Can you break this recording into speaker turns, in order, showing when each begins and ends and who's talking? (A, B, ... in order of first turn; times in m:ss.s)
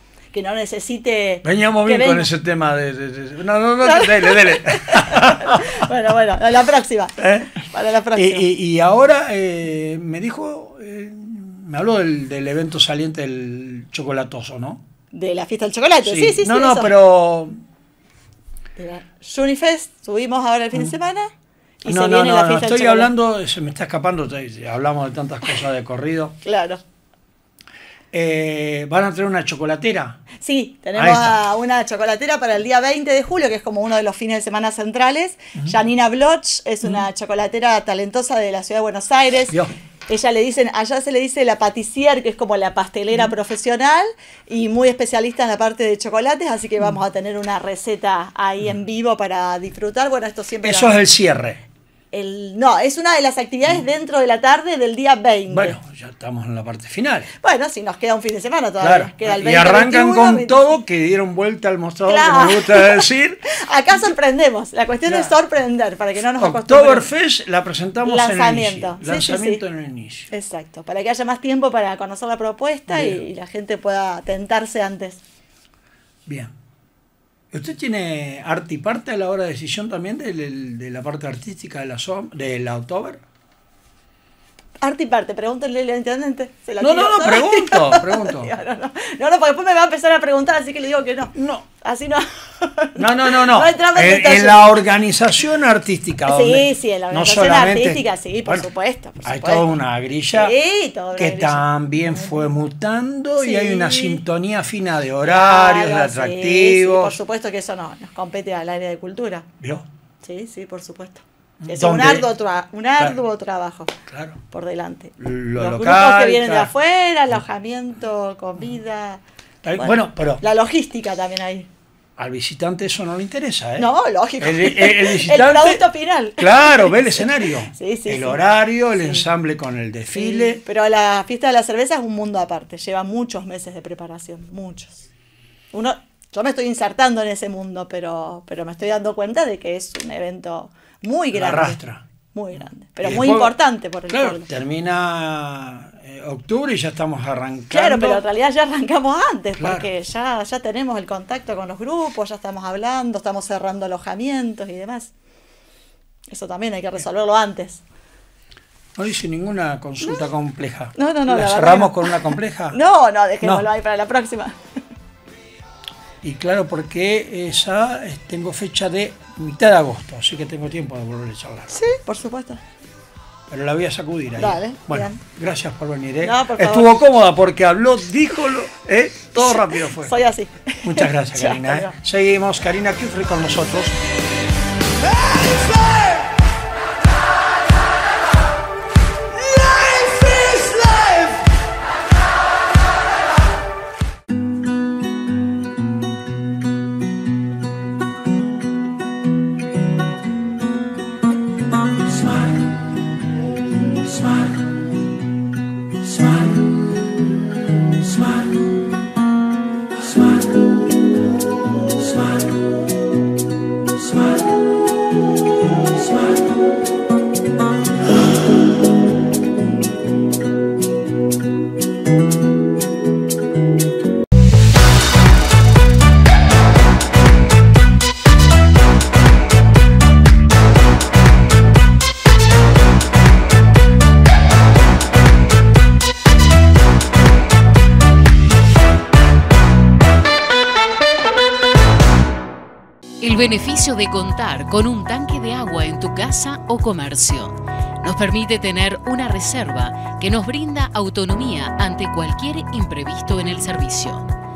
0:00.3-0:02.3 A
0:01.4-0:05.9 B
0:03.8-0:08.5 A
0:07.2-0:07.6 B
0:08.2-0:14.8 B
0:15.1-0:16.9 A
0:16.0-0:17.6 B
0:18.8-0:21.3 A
0:21.8-0:23.1 A
0:21.8-0:26.4 B
0:26.4-0:26.8 A
0:28.1-0:30.3 B
0:30.4-0:51.0 A
0:31.0-0:31.4 B
0:50.6-0:51.6 B
0:52.1-0:55.8 A
0:55.5-0:57.3 B
0:57.4-1:00.8 A
0:58.8-1:03.5 B
1:02.1-1:07.1 A
1:05.1-1:05.4 B
1:06.4-1:10.3 B
1:08.0-1:09.6 A
1:10.3-1:15.2 A
1:12.9-1:13.2 B
1:16.3-1:16.5 B
1:17.5-1:23.2 B
1:24.8-1:34.8 A
1:26.8-1:28.5 B
1:31.4-1:31.7 B
1:33.0-1:38.7 B
1:36.2-1:39.7 A
1:39.2-1:40.6 B
1:40.3-1:42.5 A
1:41.2-1:47.2 B
1:43.4-1:44.2 A
1:45.2-1:49.5 A
1:49.6-1:49.9 B
1:50.2-1:53.9 A
1:51.6-1:52.3 B
1:54.1-1:54.4 B
1:54.5-1:59.2 A
1:55.2-1:56.7 B
1:59.6-2:00.4 B
1:59.8-2:01.7 A
2:02.2-2:03.9 B
2:03.8-2:08.4 A
2:04.4-2:05.8 B
2:06.4-2:10.6 B
2:09.0-2:09.2 A
2:10.2-2:15.0 A
2:15.7-2:21.8 A
2:21.3-2:23.6 B
2:22.3-2:24.5 A
2:24.1-2:28.2 B
2:27.7-2:35.1 A
2:29.6-2:29.9 B
2:36.3-2:37.8 A
2:39.0-2:42.8 B
2:41.0-2:44.6 A
2:46.2-2:51.7 B
2:51.7-2:52.6 A
2:53.5-3:00.2 B
2:54.4-2:55.2 A
2:56.2-2:57.0 A
2:59.4-3:01.9 A
3:00.8-3:04.0 B
4:03.2-4:14.3 C